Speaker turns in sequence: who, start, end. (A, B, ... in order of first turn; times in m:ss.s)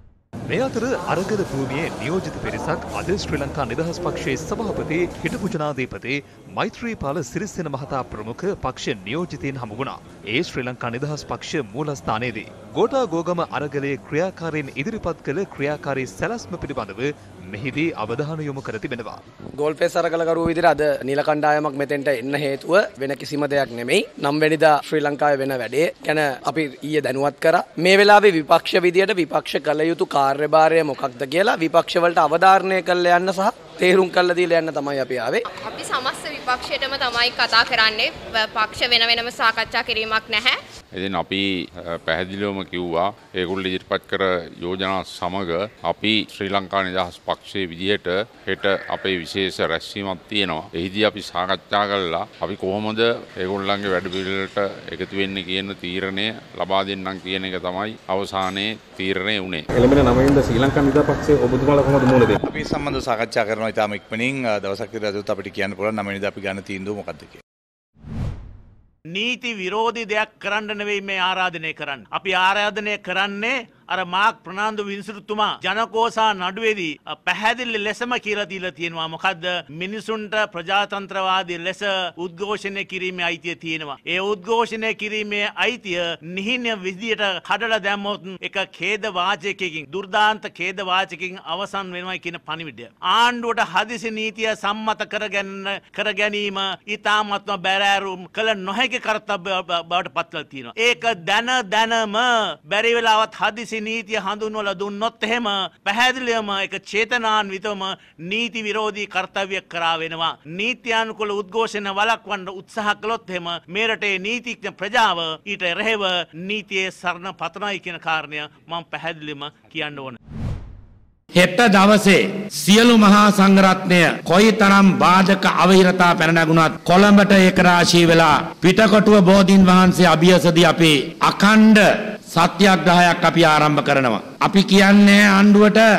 0:00.5-0:19.2 A
0:19.5-0:35.4 B
0:35.5-0:40.6 C
0:40.9-0:59.6 D
0:59.7-1:02.4 E
1:02.4-1:07.4 F
1:09.1-2:00.2 G
2:01.4-2:15.8 H